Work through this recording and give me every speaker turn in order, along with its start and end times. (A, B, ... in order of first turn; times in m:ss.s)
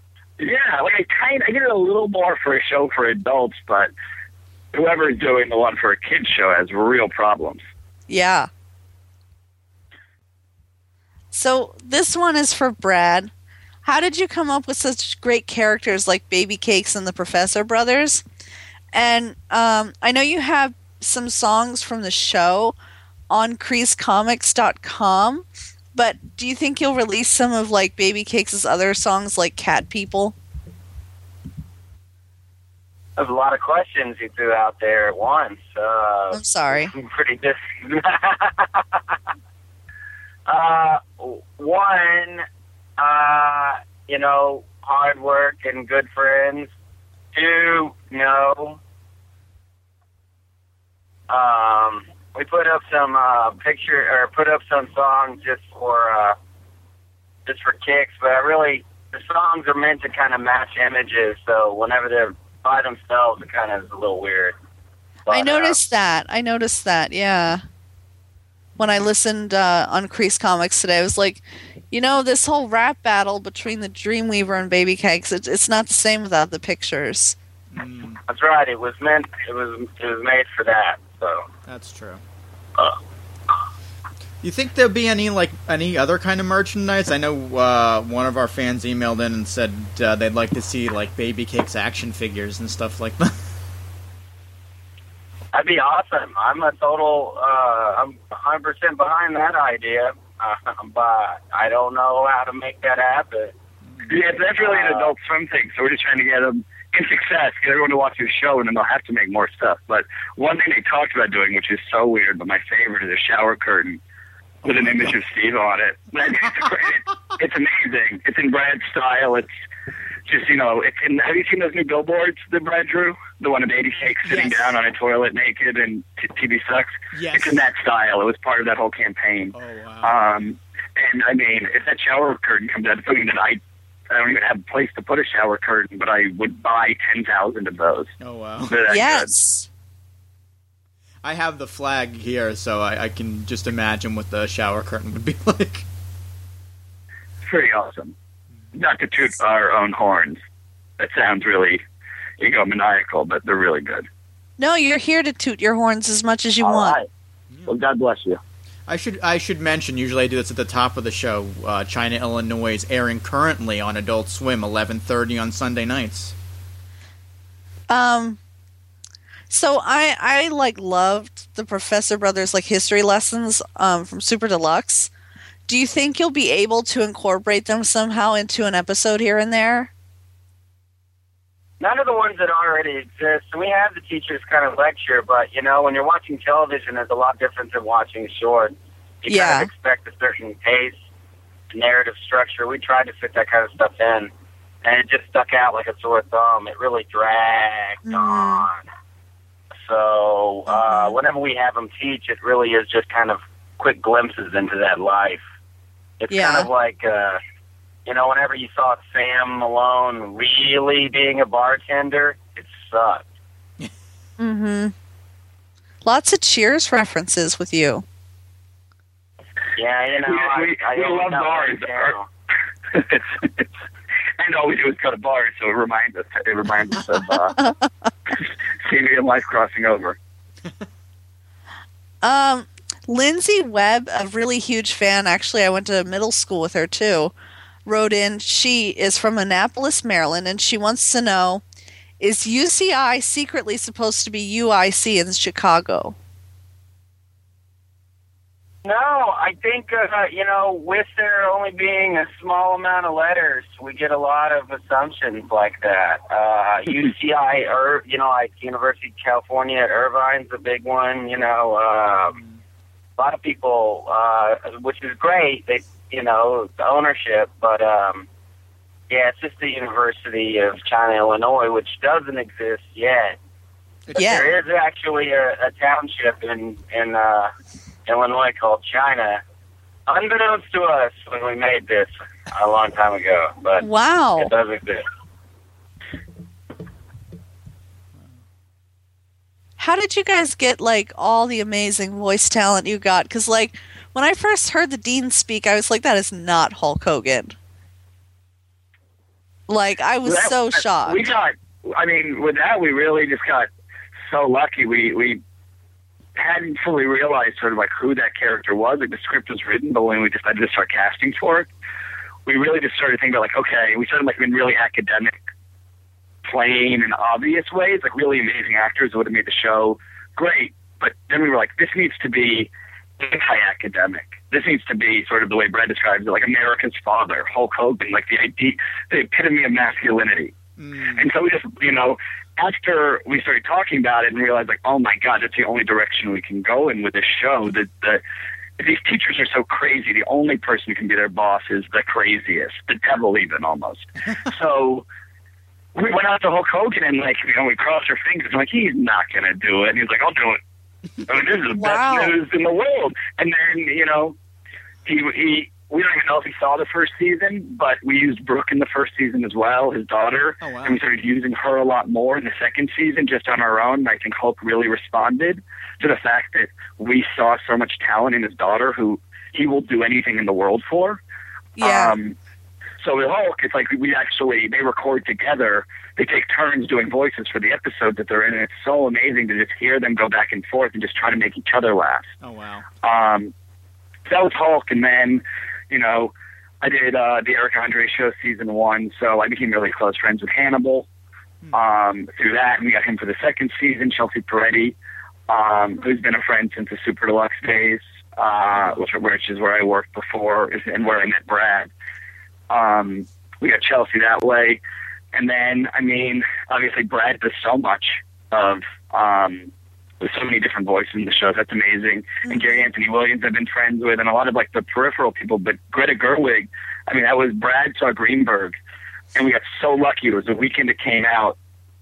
0:00.4-0:03.9 A
0:04.7-0:07.6 A
0:08.1-0:08.5 B
0:11.3-0:13.3 B
0:13.8-0:18.2 B
0:18.9-0:22.8 B
0:23.3-0:30.4 B
0:33.2-0:39.1 C
0:36.3-0:36.9 B
0:40.5-0:42.4 C
0:43.0-0:46.7 C
0:47.3-0:48.8 C
0:51.3-0:56.4 C
0:57.5-1:04.6 C
1:05.3-1:05.8 C
1:05.3-1:07.6 B
1:08.8-1:17.4 B
1:17.7-1:18.2 D
1:18.3-1:21.5 C
1:21.7-1:22.2 D
1:24.4-1:33.4 D
1:35.5-1:43.5 C
1:43.9-1:44.1 D
1:44.1-1:54.0 A
1:44.4-1:45.1 C
1:54.6-1:55.1 D
1:54.6-1:59.5 A
2:00.3-2:18.1 A
2:04.2-2:04.8 D
2:07.1-2:07.6 D
2:09.5-2:10.2 D
2:18.2-2:18.8 D
2:18.7-2:19.3 A
2:18.9-2:19.7 B
2:21.2-2:25.8 D
2:27.4-2:28.1 A
2:28.8-2:30.4 A
2:31.0-2:31.8 A
2:32.4-2:34.1 A
2:34.6-2:37.0 B
2:36.6-2:37.1 A
2:37.7-2:38.4 A
2:38.9-2:46.3 D
2:47.9-2:48.4 B
2:49.5-2:55.1 B
2:55.7-2:59.9 B
3:01.8-3:11.0 C
3:09.3-3:09.7 B
3:11.7-3:14.3 C
3:14.8-3:18.8 C
3:18.1-3:18.7 B
3:19.8-3:25.4 C
3:20.7-3:21.2 B
3:26.2-3:27.4 C
3:26.3-3:26.7 B
3:28.1-3:33.2 C
3:34.4-3:34.9 B
3:36.0-3:38.0 B
3:39.8-3:42.3 C
3:40.3-3:42.2 A
3:42.9-3:43.6 A
3:44.4-3:47.6 A
3:48.8-3:50.2 A
3:52.2-3:57.3 B
3:57.9-4:01.6 B
4:02.2-4:06.2 B
4:08.8-4:22.4 C
4:23.2-4:28.3 C
4:29.1-4:33.4 C
4:34.1-4:34.5 D
4:34.2-4:34.5 B
4:34.2-4:37.5 C
4:38.1-4:39.4 C
4:40.1-4:43.9 C
4:43.8-4:44.5 B
4:44.4-4:45.0 C
4:49.8-4:57.6 B
4:59.7-5:01.3 B
5:00.2-5:03.7 A
5:04.3-5:05.4 A
5:06.4-5:11.7 A
5:12.5-5:15.4 A
5:16.4-5:30.5 A
5:30.8-5:31.3 D
5:31.2-5:38.2 A
5:38.8-5:45.0 A
5:46.0-5:50.6 A
5:51.3-5:54.4 A
5:51.8-5:52.3 B
5:55.1-6:11.2 A
6:00.6-6:01.0 D
6:11.8-6:12.2 B
6:11.8-6:12.4 A
6:13.0-6:22.3 A
6:22.4-6:22.9 D
6:23.0-6:23.5 A
6:24.3-6:31.1 A
6:31.7-6:35.0 A
6:35.5-6:41.9 A
6:42.7-6:44.8 A
6:45.3-6:58.8 A
6:59.4-7:01.6 A